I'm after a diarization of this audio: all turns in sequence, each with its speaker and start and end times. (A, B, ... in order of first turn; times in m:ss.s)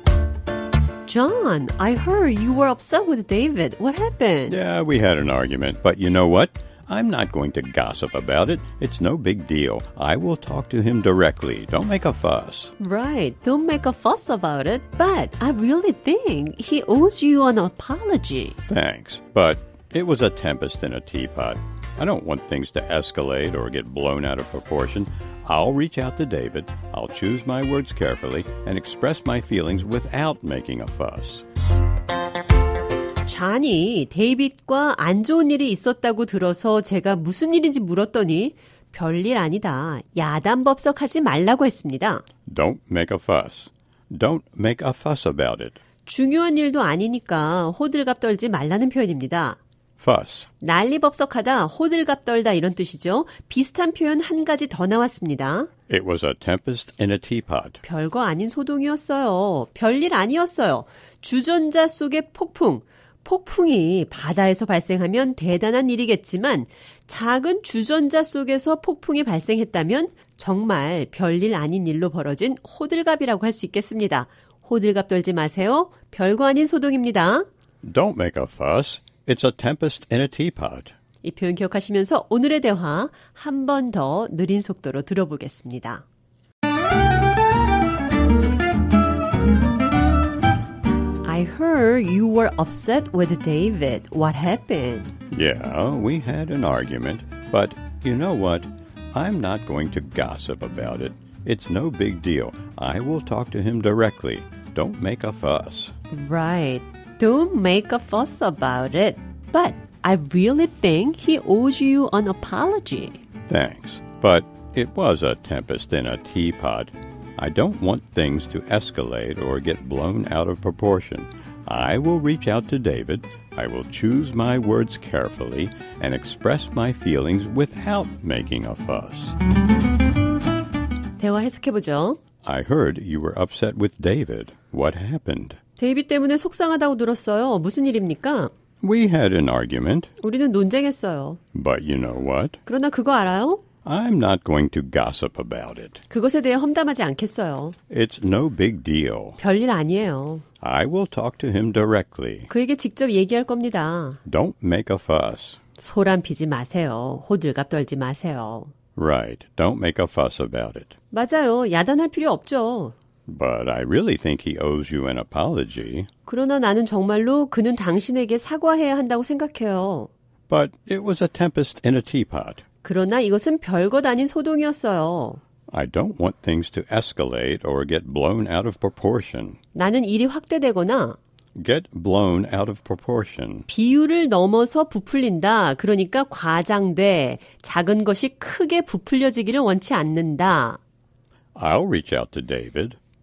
0:01.1-0:04.6 A
0:04.5-0:12.7 B
0:12.8-0:18.6 A
0:18.7-0:31.5 B
0:33.3-0:42.2 A
0:42.5-0:45.8 B
0:46.0-0:49.6 A
0:50.0-0:50.5 B
0:50.6-0:55.7 A
0:55.9-0:57.8 B
0:57.8-1:17.5 A
1:17.8-1:20.9 B
1:21.2-1:26.0 A
1:31.2-1:35.1 A
1:35.3-1:45.9 B
1:46.1-1:53.2 A
1:53.5-2:09.4 B
2:11.2-2:12.2 A
2:12.4-2:15.6 B
2:15.8-2:18.5 A
2:18.8-2:20.1 B
2:20.2-2:21.4 A
2:21.5-2:22.6 B
2:22.7-2:23.6 A
2:23.8-2:26.0 B
2:26.1-2:27.8 A
2:27.9-2:29.4 B
2:29.4-2:30.4 A
2:30.6-2:32.5 B
2:32.5-2:34.2 A
2:34.3-2:35.6 B
2:35.8-2:38.7 A
2:39.0-2:41.0 B
2:41.1-2:43.0 A
2:43.3-2:46.1 B
2:46.3-2:50.1 A
2:50.5-2:52.6 B
2:52.8-2:55.4 A
2:55.7-2:59.6 B
2:59.7-3:01.2 A
3:01.6-3:03.7 B
3:03.7-3:10.8 A
3:11.6-3:13.0 B